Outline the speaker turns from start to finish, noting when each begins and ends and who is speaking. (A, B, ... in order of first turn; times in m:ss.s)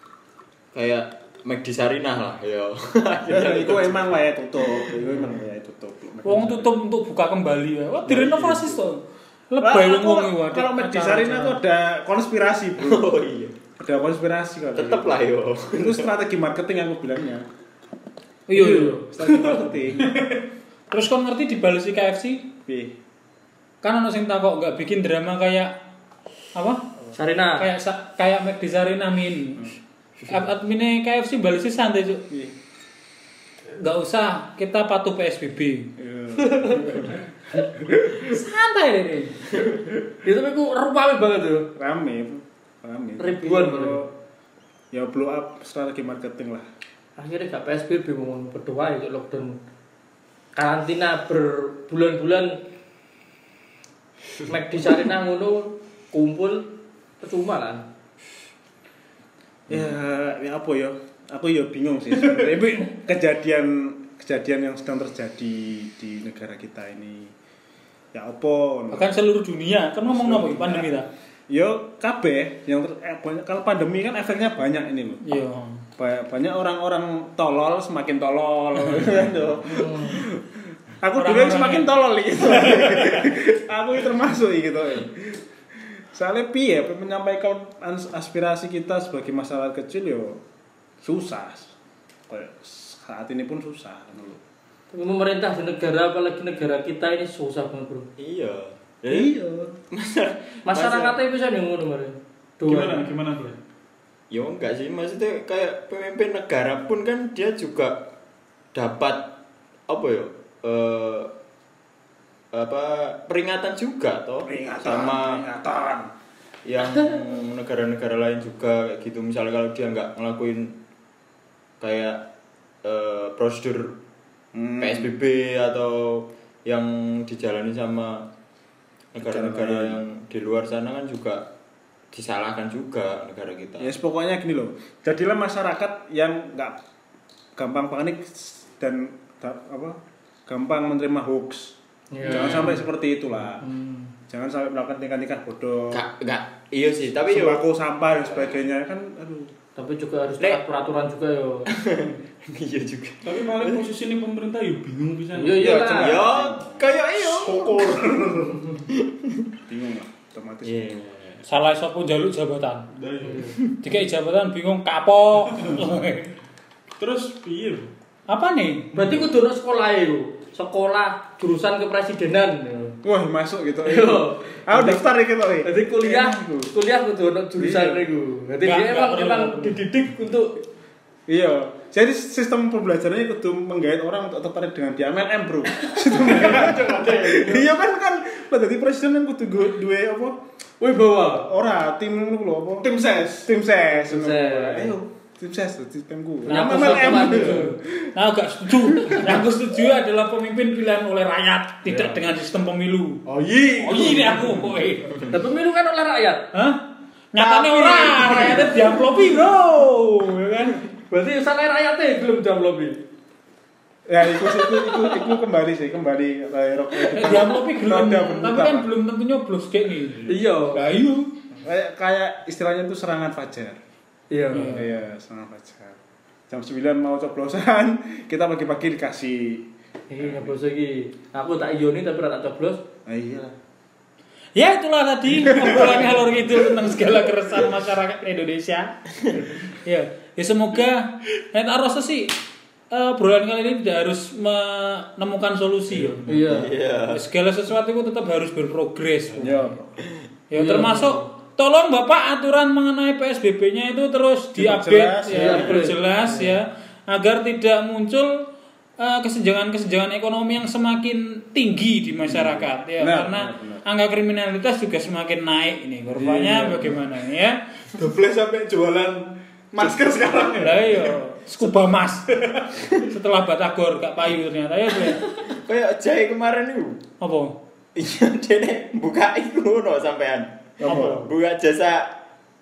0:00.7-0:04.2 A
0:03.2-0:06.7 B
0:06.2-0:11.6 C
0:08.0-0:08.8 B
0:09.6-0:13.2 B
0:12.8-0:13.5 A
0:13.8-0:17.5 B
0:14.8-0:16.1 A
0:18.5-0:19.0 C
0:18.5-0:19.6 D
0:19.0-0:20.1 B
0:20.0-0:20.4 E
0:20.9-0:22.5 C
0:22.6-0:23.0 B
0:23.8-0:25.7 C
0:26.5-0:26.8 C
0:27.2-0:27.7 D
0:27.6-0:29.7 C
0:30.2-0:32.2 C
0:33.8-0:35.9 C
0:36.0-0:37.2 B
0:36.4-0:36.8 D
0:38.0-0:39.5 C
0:40.2-0:41.7 D
0:41.7-0:44.1 B
0:43.2-0:44.1 D
0:44.9-0:46.7 B
0:47.2-0:49.6 D
0:50.5-0:52.6 D
0:54.4-0:57.8 D
0:59.7-1:07.3 B
1:08.1-1:09.1 B
1:08.9-1:11.1 C
1:10.0-1:11.0 B
1:11.5-1:15.2 B
1:15.2-1:15.8 C
1:16.0-1:30.4 B
1:19.7-1:20.2 D
1:21.2-1:21.9 C
1:22.9-1:23.3 A
1:31.0-1:31.7 B
1:32.3-1:34.4 B
1:34.9-1:38.1 D
1:38.2-1:39.3 A
1:39.1-1:39.8 B
1:39.9-1:41.2 A
1:40.6-1:43.1 D
1:42.6-1:43.6 E
1:44.3-1:48.0 A
1:48.7-1:49.3 A
1:49.9-1:51.3 A
1:52.5-1:55.4 A
1:54.4-1:56.1 B
1:56.6-2:00.7 A
2:01.8-2:02.2 A
2:02.8-2:04.0 A
2:04.5-2:05.1 B
2:04.8-2:08.3 A
2:09.1-2:11.4 A
2:09.2-2:10.0 B
2:12.1-2:13.9 A
2:13.8-2:16.8 B
2:17.6-2:23.7 B
2:22.1-2:22.8 D
2:23.6-2:24.1 D
2:24.3-2:26.0 B
2:25.9-2:28.5 A
2:27.2-2:29.5 B
2:29.8-2:31.7 D
2:31.7-2:33.8 A
2:33.2-2:36.0 E
2:35.3-2:36.2 D
2:35.6-2:38.6 B
2:35.8-2:37.9 A
2:38.9-2:39.4 A
2:39.7-2:41.0 B
2:40.6-2:41.4 A
2:41.5-2:42.9 C
2:43.0-2:43.5 E
2:43.2-2:43.5 D
2:43.8-2:46.3 C
2:47.0-2:47.9 E
2:48.3-2:48.9 C
2:48.9-2:49.2 E
2:48.9-2:53.0 D
2:53.0-2:56.7 B
2:53.8-2:55.1 D
2:55.6-3:00.6 D
2:57.6-2:58.0 B
2:58.6-2:59.8 C
3:01.3-3:10.4 B
3:05.8-3:06.2 D
3:06.2-3:07.7 E
3:10.8-3:11.5 E
3:11.2-3:17.8 B
3:12.8-3:13.5 E
3:13.9-3:14.9 D
3:16.4-3:23.2 C
3:16.5-3:17.7 D
3:18.7-3:19.4 B
3:23.2-3:24.7 E
3:23.8-3:25.3 C
3:25.3-3:26.4 D
3:26.5-3:26.8 C
3:27.3-3:30.8 C
3:27.4-3:29.2 B
3:31.1-3:33.0 D
3:34.1-3:38.9 B
3:34.4-3:35.3 D
3:37.1-3:41.3 C
3:40.3-3:40.9 D
3:41.6-3:43.8 B
3:44.3-3:44.8 D
3:44.5-3:44.9 C
3:44.5-3:46.0 B
3:46.5-3:49.7 B
3:50.1-3:52.8 D
3:50.2-3:50.5 B
3:53.0-3:53.5 B
3:54.5-3:58.9 C
3:55.4-3:56.1 B
3:59.6-4:02.3 C
4:02.9-4:06.2 C
4:05.9-4:06.7 E
4:06.3-4:06.7 D
4:06.5-4:07.2 A
4:07.1-4:09.7 C
4:09.4-4:10.1 B
4:10.5-4:18.4 C
4:10.6-4:11.2 D
4:14.5-4:15.8 B
4:15.3-4:16.6 D
4:19.0-4:27.6 C
4:22.3-4:23.8 B
4:26.1-4:27.0 E
4:27.9-4:31.2 E
4:30.5-4:35.2 C
4:32.3-4:32.9 E
4:35.4-4:37.0 A
4:37.2-4:37.6 C
4:37.9-4:42.1 A
4:40.8-4:41.3 B
4:40.9-4:41.2 C